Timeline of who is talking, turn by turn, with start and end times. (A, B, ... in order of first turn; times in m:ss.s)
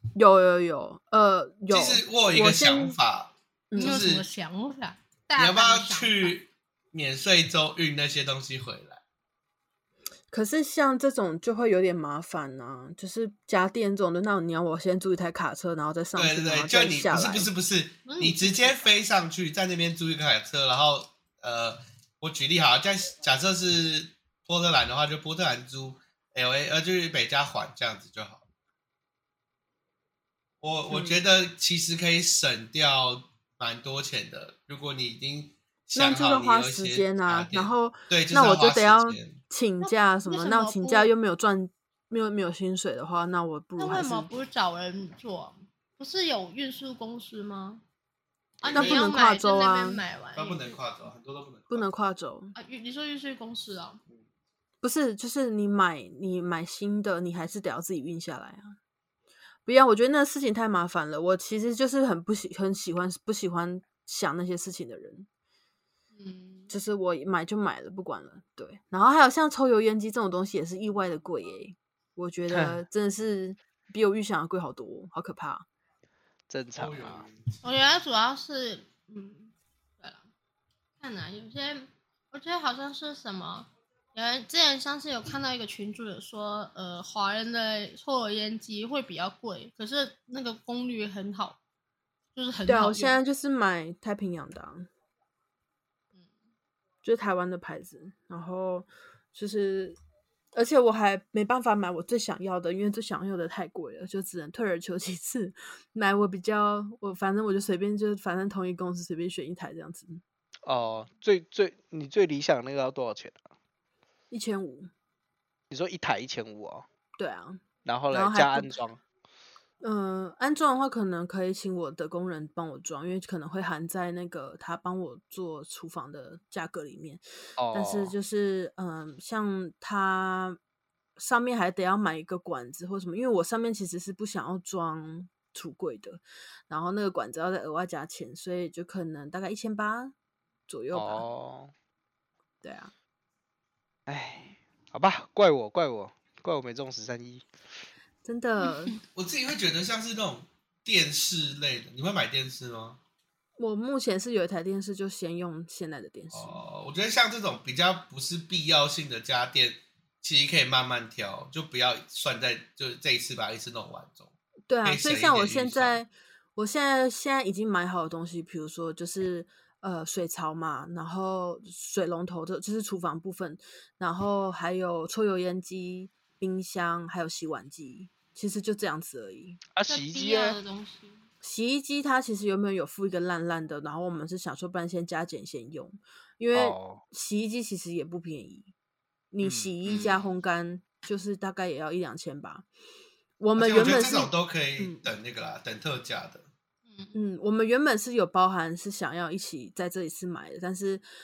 0:00.2-0:03.0 A
0:01.7-0:04.2 B
0:03.7-0:04.1 A
0:03.8-0:06.3 C
0:05.4-0:09.0 B
0:10.3-0:17.5 A
0:16.2-0:28.4 B
0:18.0-0:18.9 C
0:30.6-0:39.4 B
0:30.9-0:31.2 A
0:35.9-0:44.3 A
0:39.8-0:41.1 C
0:43.8-0:47.8 C
0:48.6-0:50.8 C
0:48.7-0:49.0 B
0:48.7-0:50.0 A
0:50.4-0:51.9 B
0:51.7-0:52.5 A
0:52.5-0:54.0 C
0:54.8-0:58.7 A
0:59.6-1:05.3 A
1:06.1-1:06.7 C
1:06.7-1:15.6 A
1:12.5-1:12.8 D
1:16.5-1:17.3 D
1:16.7-1:17.6 B
1:17.6-1:20.2 C
1:21.0-1:31.6 C
1:32.3-1:33.2 C
1:32.7-1:34.9 A
1:37.0-1:40.0 A
1:40.5-1:50.2 A
1:50.6-1:53.5 D
1:54.3-1:54.9 A
1:55.7-1:56.8 D
1:57.2-1:58.7 A
1:57.8-1:59.0 D
1:59.8-2:07.2 A
2:07.6-2:08.1 D
2:07.7-2:10.6 A
2:11.2-2:20.1 A
2:20.7-2:21.2 A
2:20.9-2:21.7 D
2:22.6-2:22.9 A
2:24.1-2:27.5 D
2:28.2-2:29.0 A
2:29.1-2:33.0 B
2:33.6-2:36.6 A
2:36.3-2:44.3 B
2:44.7-2:59.6 A
2:44.8-2:46.0 B
2:59.7-3:00.6 D
2:59.9-3:01.2 C
3:01.4-3:08.7 A
3:06.5-3:07.0 D
3:09.3-3:12.6 A
3:09.4-3:09.8 D
3:09.9-3:10.2 C
3:13.4-3:15.1 A
3:13.6-3:16.5 B
3:16.9-3:17.1 C
3:17.1-3:21.0 A